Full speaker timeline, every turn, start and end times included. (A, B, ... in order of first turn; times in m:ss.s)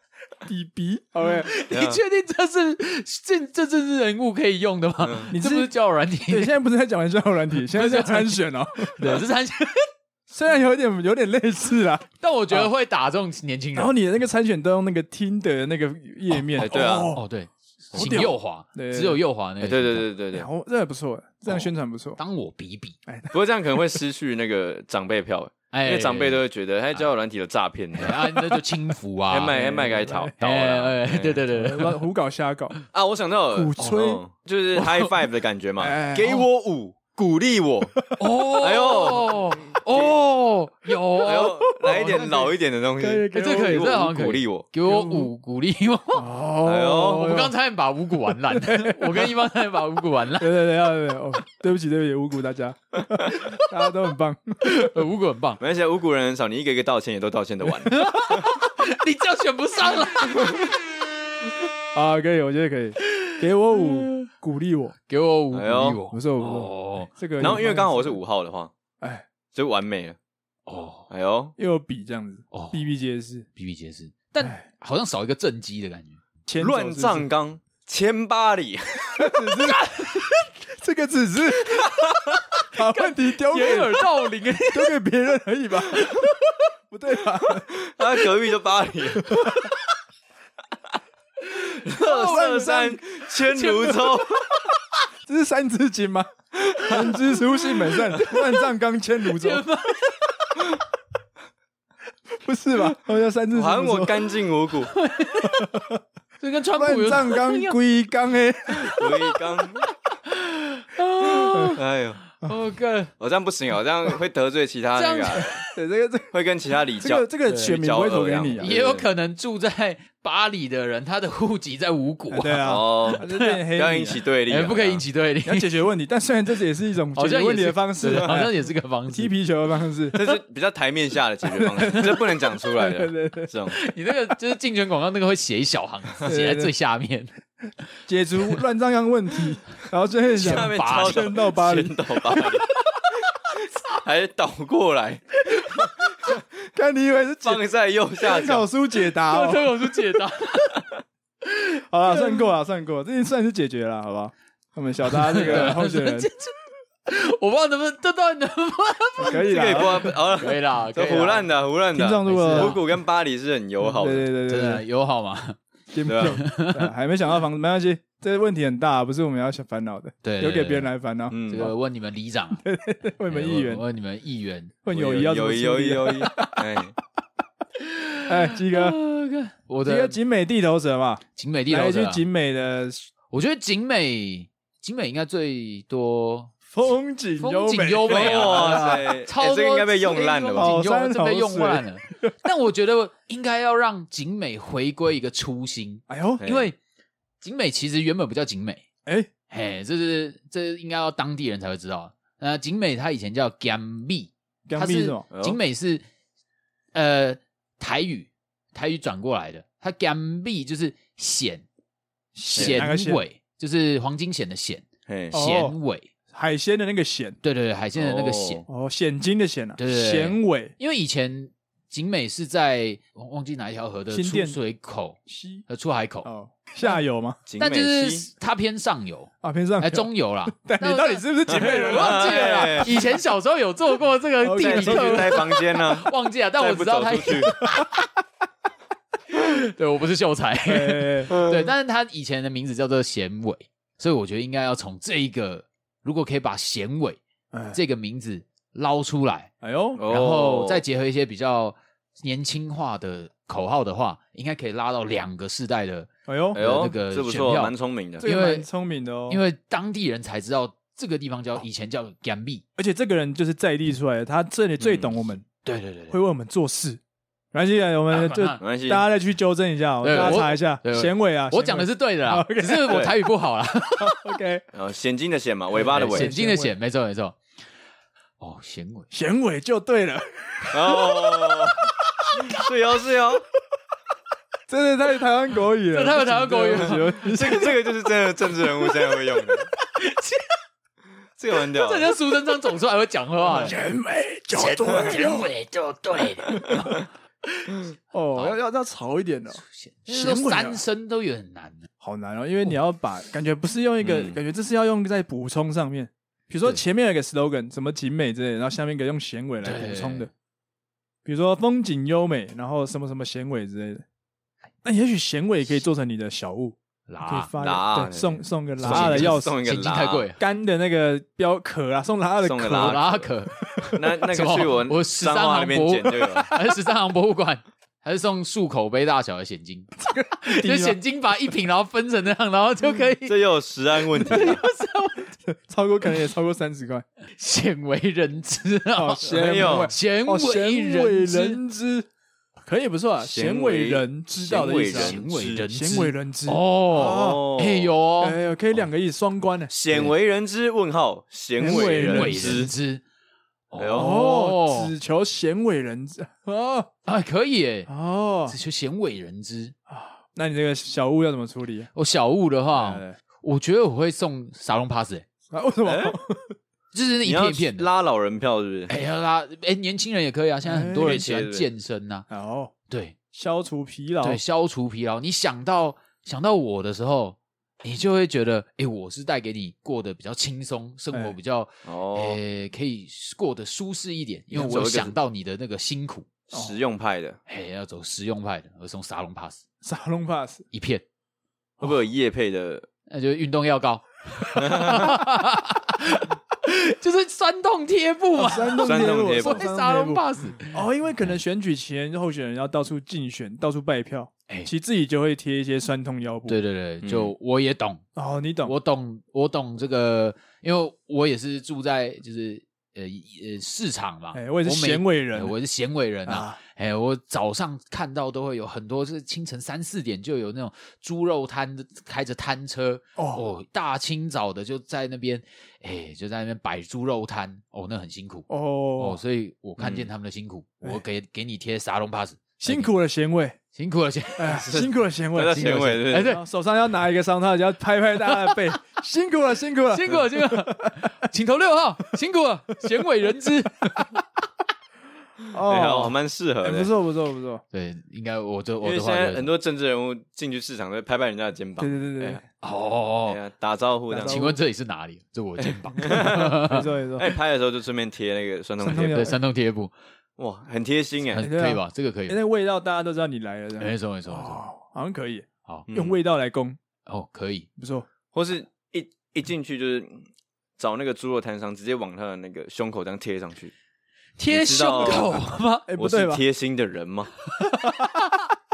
0:00.5-0:01.5 A
0:01.4-0:06.5 B
0:01.7-0:02.0 C
0:05.0-0:05.3 C
0:05.3-0:05.7 A
0:06.3-0:09.2 A
0:07.7-0:08.4 B
0:08.9-0:09.9 B
0:10.3-0:12.7 A
0:12.2-0:14.0 B
0:13.8-0:17.2 A
0:16.3-0:20.1 B
0:16.6-0:17.1 C
0:17.9-0:19.2 A
0:19.6-0:20.5 C
0:20.3-0:22.2 A
0:21.5-0:23.0 B
0:23.1-0:23.3 A
0:23.3-0:28.4 C
0:25.7-0:26.4 B
0:28.0-0:29.6 B
0:29.3-0:31.4 C
0:29.5-0:30.4 A
0:30.4-0:32.0 B
0:31.5-0:32.8 A
0:32.9-0:38.0 C
0:33.5-0:34.2 A
0:34.8-0:35.1 B
0:35.8-0:36.5 A
0:38.2-0:42.1 B
0:38.6-0:40.2 C
0:41.2-0:44.7 C
0:41.8-0:43.9 A
0:43.3-0:46.3 B
0:44.8-0:45.3 A
0:46.2-0:47.5 A
0:46.6-0:47.4 C
0:47.1-0:50.6 B
0:48.5-0:49.3 A
0:50.4-0:54.9 A
0:53.3-0:53.6 B
0:54.6-0:55.6 B
0:55.6-0:58.0 C
0:57.9-1:00.7 B
1:01.9-1:05.0 A
1:03.0-1:04.3 B
1:05.1-1:07.1 B
1:05.5-1:06.0 C
1:06.1-1:08.2 A
1:07.4-1:08.7 C
1:09.0-1:09.3 A
1:09.5-1:10.2 C
1:10.7-1:11.1 B
1:11.1-1:11.6 C
1:11.6-1:13.5 A
1:12.5-1:12.8 B
1:13.6-1:16.2 B
1:16.5-1:17.3 A
1:16.6-1:19.2 C
1:19.2-1:22.0 A
1:19.6-1:20.5 B
1:21.6-1:21.9 B
1:22.6-1:25.0 B
1:22.7-1:24.0 A
1:24.7-1:26.3 A
1:26.0-1:26.3 B
1:26.9-1:27.7 A
1:27.7-1:29.3 C
1:29.2-1:29.7 A
1:31.6-1:34.6 C
1:32.0-1:32.7 B
1:32.0-1:33.0 A
1:33.4-1:34.2 B
1:35.2-1:36.3 A
1:36.6-1:37.1 C
1:36.8-1:39.6 A
1:39.3-1:40.7 B
1:42.4-1:44.3 A
1:43.5-1:44.9 C
1:44.9-1:45.8 B
1:45.4-1:46.0 A
1:46.4-1:47.8 B
1:46.8-1:49.0 A
1:48.8-1:51.8 B
1:48.8-1:49.9 C
1:51.5-1:51.8 A
1:51.7-1:52.2 C
1:52.4-1:53.1 B
1:53.2-1:55.6 C
1:55.0-1:55.7 B
1:55.6-1:56.3 A
1:56.3-1:59.1 C
1:57.0-1:58.7 A
1:57.5-1:57.8 B
1:58.6-2:03.6 B
2:02.3-2:04.2 A
2:02.6-2:05.0 C
2:04.5-2:05.7 B
2:05.5-2:08.5 A
2:07.2-2:09.3 B
2:08.1-2:08.4 C
2:09.1-2:10.4 A
2:10.1-2:13.8 C
2:11.5-2:13.5 A
2:13.7-2:17.3 B
2:16.3-2:16.7 A
2:18.1-2:22.6 A
2:20.4-2:22.7 C
2:20.4-2:21.3 B
2:23.6-2:26.3 C
2:26.3-2:27.6 A
2:27.4-2:28.7 C
2:28.2-2:30.2 A
2:29.1-2:30.9 B
2:31.9-2:36.3 A
2:32.1-2:32.4 B
2:35.1-2:41.5 B
2:39.2-2:40.2 A
2:39.4-2:44.3 C
2:41.9-2:42.8 A
2:42.2-2:42.9 B
2:43.8-2:44.8 A
2:44.5-2:45.6 B
2:45.9-2:51.4 A
2:46.1-2:46.4 C
2:46.2-2:46.9 B
2:50.2-2:50.9 B
2:51.3-2:51.7 C
2:51.5-2:52.6 B
2:52.6-2:53.8 A
2:53.3-2:54.8 B
2:54.8-2:56.6 A
2:54.9-2:57.0 C
2:57.8-3:00.2 B
2:58.3-2:59.0 A
2:59.8-3:03.1 A
3:01.4-3:02.2 B
3:03.3-3:06.5 B
3:06.7-3:09.1 A
3:07.4-3:16.8 B
3:08.1-3:10.8 C
3:10.6-3:12.3 A
3:16.1-3:16.5 A
3:16.4-3:16.7 C
3:17.4-3:18.9 B
3:19.5-3:26.0 B
3:24.7-3:25.3 A
3:25.3-3:25.6 C
3:26.9-3:31.6 B
3:32.4-3:33.2 A
3:32.4-3:36.1 B
3:32.6-3:32.9 C
3:35.1-3:35.4 C
3:35.3-3:35.8 A
3:36.3-3:37.4 A
3:37.4-3:38.6 B
3:38.0-3:38.6 C
3:38.7-3:40.7 A
3:39.8-3:46.3 B
3:44.1-3:44.6 A
3:45.3-3:45.6 A
3:46.2-3:47.4 A
3:47.5-3:48.3 C
3:47.6-3:58.0 B
3:49.4-3:53.0 A
3:51.5-3:52.9 C
3:54.4-3:55.6 A
3:54.6-3:57.6 C
3:57.6-3:57.9 A
3:59.3-4:07.2 B
4:00.7-4:01.3 A
4:01.3-4:01.7 C
4:07.5-4:07.8 A
4:07.7-4:09.5 B
4:09.6-4:10.0 A
4:10.0-4:10.8 C
4:10.1-4:18.7 B
4:16.3-4:16.6 A
4:16.5-4:18.2 C
4:18.2-4:19.4 A
4:19.3-4:22.6 B
4:22.8-4:25.5 A
4:24.8-4:25.1 C
4:25.6-4:26.2 B
4:26.1-4:27.0 A
4:27.5-4:33.1 A
4:28.1-4:28.6 B
4:28.6-4:29.1 C
4:30.0-4:34.2 B
4:34.0-4:34.6 A
4:34.7-4:36.3 C
4:35.8-4:36.8 A
4:35.8-4:37.4 B
4:38.4-4:39.1 B
4:39.1-4:41.7 A
4:40.7-4:43.4 C
4:44.7-4:47.8 A
4:45.9-4:47.3 B
4:47.2-4:49.7 C
4:48.9-4:50.5 B
4:51.4-4:52.2 C
4:51.6-4:53.8 B
4:53.4-4:55.5 A
4:54.5-4:57.0 B
4:58.1-5:00.8 A
4:59.6-5:01.9 B
5:02.0-5:10.3 A
5:04.0-5:04.4 C
5:09.6-5:10.3 B
5:11.2-5:14.0 A
5:14.8-5:19.6 A
5:17.1-5:17.5 B
5:17.6-5:20.3 C
5:18.8-5:20.4 B
5:20.4-5:23.0 A
5:22.4-5:23.3 C
5:22.7-5:33.4 B
5:23.9-5:26.5 C
5:30.0-5:31.0 A
5:33.3-5:34.6 C
5:34.1-5:35.3 B
5:35.5-5:37.0 A
5:37.4-5:41.6 B
5:39.0-5:42.1 A
5:39.2-5:39.9 C
5:42.6-5:47.5 A
5:43.2-5:45.7 C
5:44.6-5:48.4 B
5:46.9-5:48.0 C
5:48.2-5:49.7 A
5:49.7-5:52.7 C
5:51.6-5:52.7 A
5:52.0-5:53.0 B
5:53.7-5:54.9 B
5:53.8-5:54.1 C
5:53.9-5:56.9 A
5:57.0-5:57.9 B
5:57.9-5:58.6 A
5:58.5-5:59.8 B
5:59.9-6:01.9 A
6:02.0-6:05.3 B
6:02.8-6:03.2 A
6:05.5-6:06.6 A
6:05.8-6:06.2 C
6:06.9-6:07.9 B
6:07.2-6:08.9 C
6:08.9-6:12.3 B
6:10.6-6:11.2 A
6:11.0-6:11.7 C
6:12.3-6:12.7 A
6:12.9-6:13.2 B
6:13.3-6:14.4 A
6:14.2-6:26.3 B
6:21.9-6:22.4 C
6:24.5-6:25.1 C
6:26.5-6:27.4 C
6:27.5-6:29.6 B
6:29.8-6:30.6 A
6:30.7-6:31.0 B
6:31.8-6:32.9 C
6:33.1-6:41.3 B
6:34.6-6:35.2 C
6:38.4-6:46.6 A
6:38.8-6:39.7 C
6:46.5-6:48.0 B
6:47.0-6:47.3 C
6:48.2-6:48.8 A
6:48.6-7:12.9 B
6:54.3-6:55.6 A
6:56.3-6:56.6 A
7:03.2-7:03.4 A
7:08.5-7:09.2 A
7:09.8-7:10.1 C
7:12.6-7:13.6 A
7:13.7-7:14.7 B
7:14.4-7:21.0 A
7:14.6-7:16.4 C
7:15.6-7:16.4 B
7:18.3-7:18.8 B
7:19.9-7:24.2 B
7:25.5-7:27.6 A
7:25.7-7:26.9 C
7:27.7-7:29.5 B
7:28.8-7:32.4 C
7:31.8-7:32.4 A
7:32.6-7:33.4 B
7:33.3-7:34.5 C
7:34.1-7:34.6 A
7:34.3-7:36.9 B
7:36.0-7:39.3 C
7:36.1-7:37.3 A
7:38.8-7:39.4 A
7:39.1-7:39.9 B
7:40.4-7:41.5 C
7:41.3-7:42.4 B
7:41.4-7:46.8 A
7:43.8-7:44.6 B
7:45.9-7:46.2 C
7:47.1-7:47.7 B
7:47.8-7:48.1 A
7:48.3-7:50.3 C
7:50.8-7:53.7 C
7:54.4-7:55.9 B
7:54.5-7:55.4 C
7:55.9-7:56.4 A
7:56.0-7:57.3 C
7:57.8-7:58.2 A